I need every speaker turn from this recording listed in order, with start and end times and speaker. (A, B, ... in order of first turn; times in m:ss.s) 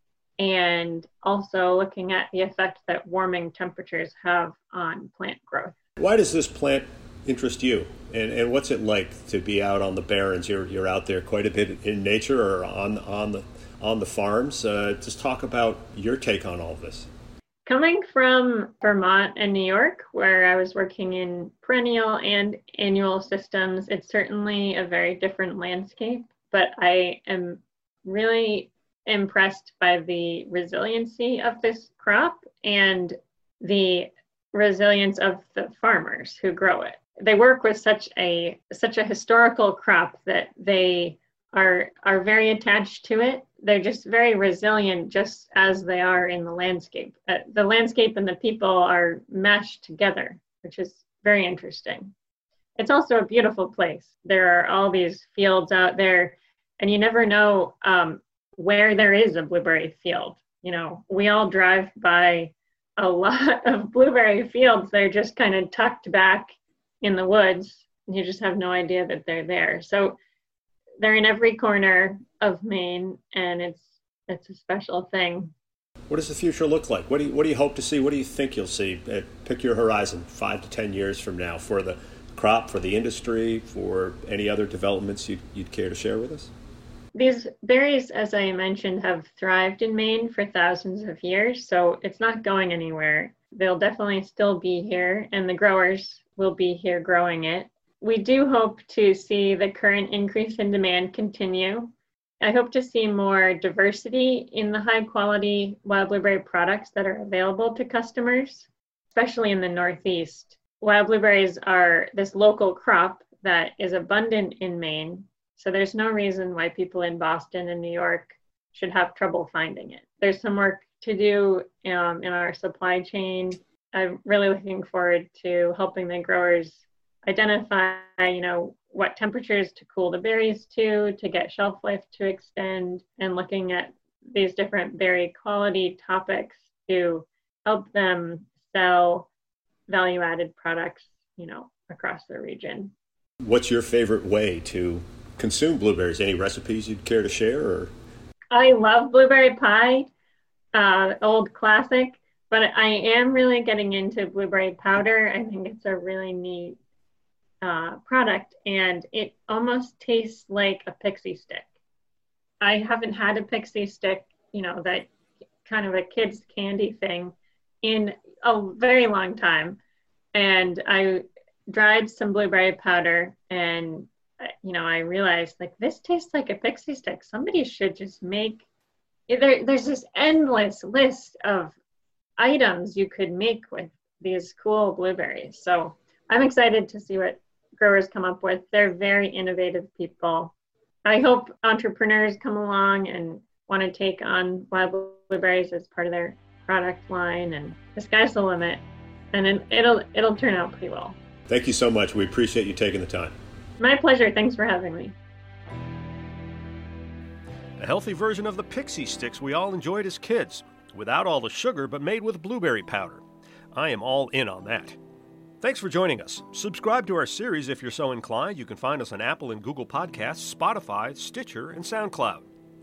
0:00.4-0:05.8 A
0:06.0-0:17.1 B
0:17.6-0:52.1 A
0:52.8-1:10.2 A
1:11.0-1:15.5 A
1:16.1-1:26.5 B
1:27.1-2:19.3 A
2:19.9-2:22.9 A
2:23.4-2:27.9 B
2:28.5-2:30.1 A
2:30.7-2:36.8 A
2:37.6-2:41.7 A
2:42.6-2:45.1 A
2:45.6-2:49.8 A
2:50.3-2:58.6 A
2:59.3-3:01.8 A
3:02.4-3:10.5 A
3:11.0-3:18.8 A
3:19.3-3:21.2 A
3:21.5-3:23.3 B
3:23.8-3:25.2 A
3:27.8-3:35.0 B
3:35.6-3:42.5 B